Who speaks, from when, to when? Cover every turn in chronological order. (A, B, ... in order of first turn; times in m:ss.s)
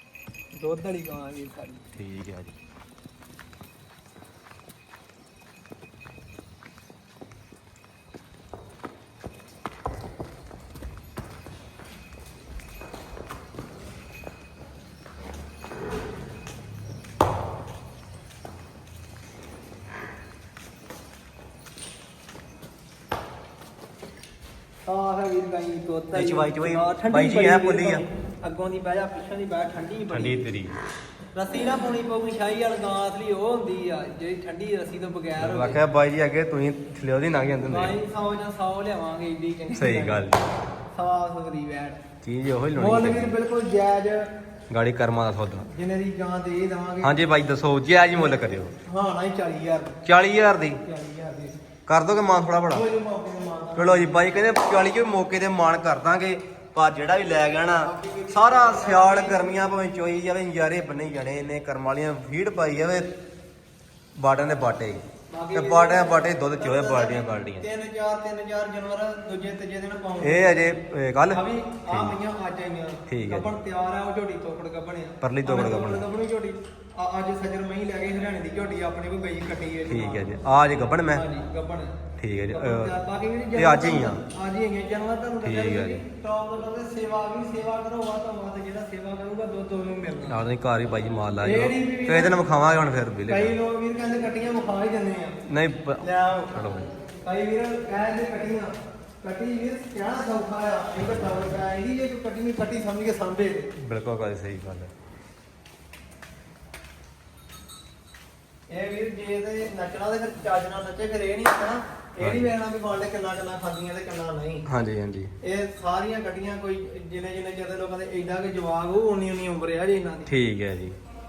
0:00.6-0:01.8 A
0:01.9-0:02.5 B
0:24.9-0:30.5 A
0:26.1-0:28.0 B
0:30.1-0:30.8 B
0:31.4-0:35.8 A
0:35.4-0:38.0 B
0:37.6-0:40.3 A
0:39.7-0:40.5 B
0:41.0-0:42.0 A
0:42.2-0:43.3 B
0:42.8-0:44.3 A
0:44.7-0:45.7 B
0:45.7-0:47.2 A
0:47.0-0:48.7 B
0:48.9-0:50.0 A
0:50.0-0:50.8 B
0:50.8-0:51.6 A
0:51.9-0:52.8 B
0:52.7-0:54.2 A
0:53.8-1:03.1 B
0:57.7-0:59.7 A
1:04.2-1:05.0 B
1:05.3-1:10.7 A
1:05.5-1:07.7 B
1:10.2-1:12.2 B
1:11.3-1:20.3 A
1:13.1-1:13.5 B
1:15.2-1:16.1 B
1:19.9-1:21.2 B
1:20.9-1:22.0 A
1:22.2-1:23.0 B
1:22.5-1:30.4 A
1:23.6-1:24.2 B
1:25.4-1:26.0 B
1:30.3-1:33.6 B
1:31.4-1:32.4 A
1:33.3-1:35.4 A
1:35.5-1:36.9 B
1:36.0-1:36.7 A
1:37.2-1:43.7 A
1:43.8-1:44.9 B
1:48.7-1:54.7 A
1:52.2-1:52.5 B
1:54.7-1:55.3 B
1:55.4-2:00.3 A
2:00.3-2:01.0 B